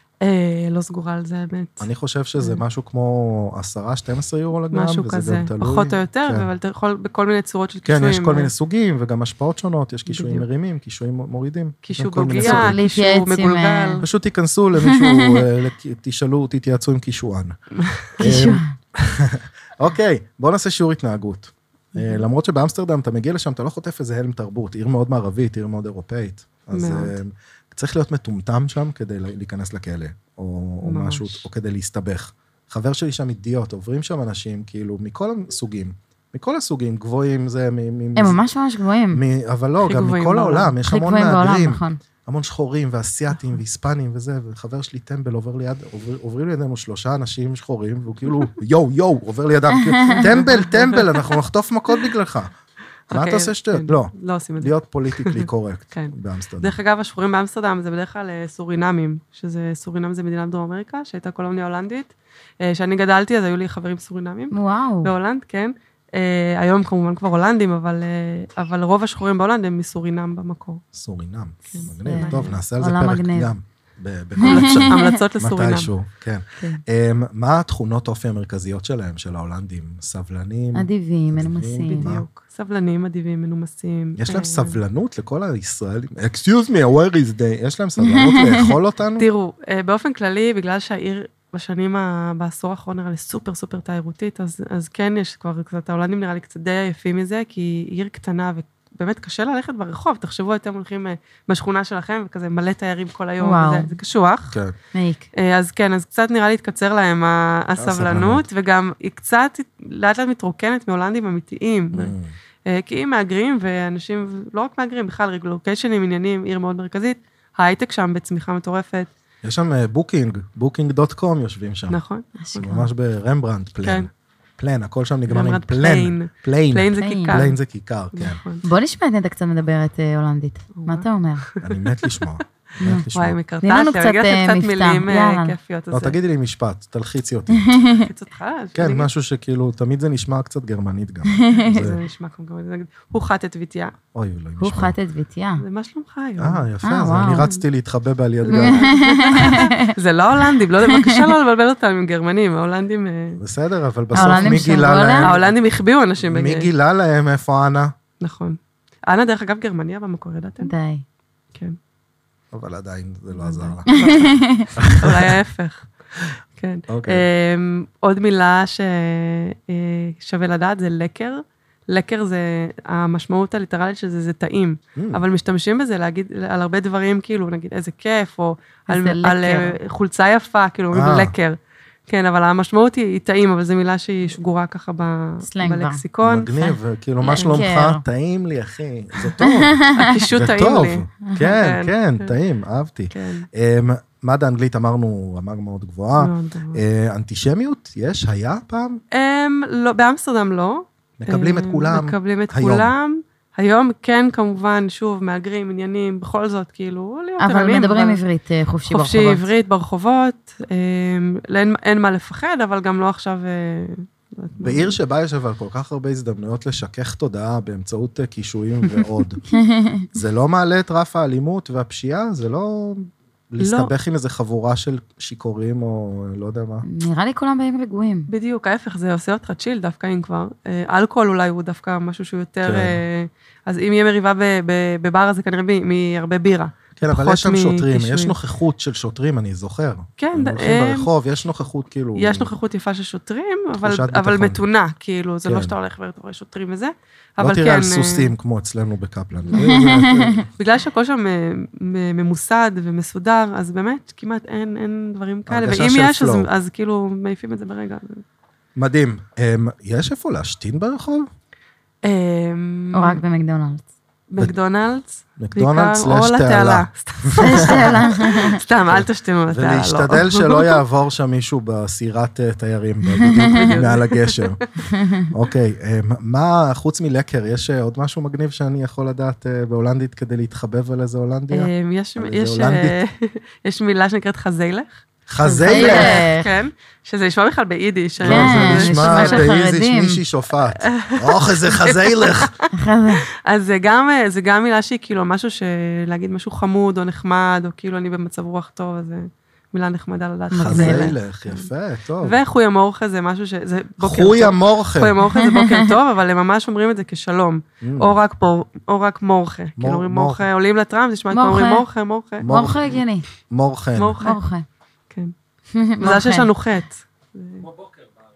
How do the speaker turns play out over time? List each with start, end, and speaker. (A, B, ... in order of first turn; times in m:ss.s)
0:00.2-0:02.6 A
0:01.8-0:06.5 B
0:04.7-0:08.5 A
0:07.8-0:12.8 B
0:10.1-0:10.5 A
0:11.8-0:14.0 A
0:12.4-0:14.0 C
0:14.0-0:17.6 B
0:14.8-0:15.4 C
0:17.8-0:18.2 A
0:18.2-0:38.4 B
0:18.2-0:18.7 C
0:21.9-0:22.2 A
0:26.7-0:27.1 A
0:30.8-0:31.4 A
0:38.2-0:39.2 C
0:39.1-0:52.5 B
0:39.8-0:40.7 A
0:40.8-0:42.0 C
0:49.7-0:50.3 C
0:50.2-0:51.3 A
0:53.1-0:56.8 B
0:53.1-1:10.8 A
1:04.5-1:05.1 C
1:10.9-1:22.2 B
1:11.7-1:12.6 A
1:11.8-1:13.5 C
1:14.4-1:15.2 C
1:14.4-1:15.9 A
1:20.7-1:22.1 C
1:21.8-1:24.8 A
1:24.2-1:29.2 B
1:28.0-1:28.7 C
1:29.2-1:44.5 A
1:43.4-1:44.0 C
1:44.9-1:45.3 C
1:45.3-1:52.1 A
1:47.8-1:48.4 B
1:51.9-1:52.3 B
1:52.6-1:59.1 A
1:59.4-2:02.0 B
2:01.9-2:02.7 A
2:02.4-2:02.9 C
2:02.6-2:08.4 B
2:03.8-2:04.1 A
2:05.3-2:07.6 A
2:07.0-2:07.4 C
2:08.1-2:08.6 A
2:08.6-2:11.4 C
2:10.7-2:12.2 A
2:11.6-2:13.4 B
2:12.8-2:13.0 C
2:13.1-2:16.2 A
2:13.6-2:15.6 C
2:15.9-2:17.7 B
2:17.5-2:18.1 C
2:17.9-2:19.1 A
2:18.7-2:22.0 B
2:21.3-2:21.9 C
2:21.7-2:23.9 A
2:24.1-2:24.9 B
2:24.6-2:25.6 C
2:25.6-2:26.6 A
2:26.4-2:29.5 B
2:26.8-2:27.5 C
2:27.3-2:27.6 A
2:28.4-2:33.4 A
2:28.5-2:31.3 C
2:33.4-2:35.6 B
2:34.1-2:35.3 C
2:34.1-2:36.7 A
2:36.2-2:37.9 B
2:38.2-2:40.7 A
2:40.6-2:41.0 C
2:42.5-2:43.9 B
2:43.3-2:45.9 A
2:43.9-2:44.7 C
2:44.8-2:45.3 B
2:46.6-3:06.5 A
2:46.9-2:47.2 B
2:55.0-2:55.2 B
2:58.9-2:59.8 C
3:00.9-3:01.3 B
3:05.4-3:06.0 C
3:06.2-3:19.0 B
3:06.6-3:08.0 C
3:07.4-3:07.6 A
3:09.4-3:10.2 C
3:09.9-3:12.3 A
3:13.1-3:13.5 A
3:16.2-3:16.8 A
3:19.1-3:28.2 A
3:21.2-3:22.9 B
3:27.4-3:29.5 C
3:28.9-3:35.0 A
3:34.6-3:39.4 B
3:39.5-3:40.1 C
3:40.1-3:46.8 B
3:43.6-3:43.9 A
3:46.8-3:48.3 C
3:48.3-3:58.4 A
3:52.6-3:53.0 B
3:57.0-4:02.5 B
4:00.2-4:01.1 A
4:02.2-4:08.3 A
4:03.8-4:04.6 B
4:05.4-4:05.7 B
4:07.4-4:10.5 B
4:09.4-4:09.8 A
4:09.5-4:10.4 C
4:10.6-4:18.2 A
4:15.5-4:16.5 B
4:18.8-4:21.3 B
4:22.0-4:23.2 A
4:22.9-4:23.8 C
4:24.3-4:30.8 A
4:25.4-4:28.2 B
4:27.4-4:28.6 C
4:28.9-4:34.6 B
4:33.2-4:33.8 C
4:33.4-4:34.4 A
4:34.9-4:35.3 C
4:35.3-4:43.0 B
4:41.5-4:49.5 A
4:45.3-4:46.2 B
4:45.5-4:46.6 C
4:48.2-4:52.5 B
4:48.2-4:50.2 C
4:50.8-4:52.6 A
4:52.7-4:53.2 C
4:53.4-5:01.7 A
5:00.5-5:01.1 C
5:00.6-5:02.4 B
5:02.2-5:12.5 A
5:04.0-5:05.1 B
5:05.2-5:05.9 C
5:07.8-5:08.1 B
5:09.8-5:10.4 B
5:11.3-5:11.8 C
5:12.4-5:12.9 B
5:12.4-5:13.2 C
5:13.5-5:14.2 B
5:14.0-5:14.4 A
5:14.2-5:14.6 C
5:15.7-5:16.5 C
5:16.0-5:17.7 A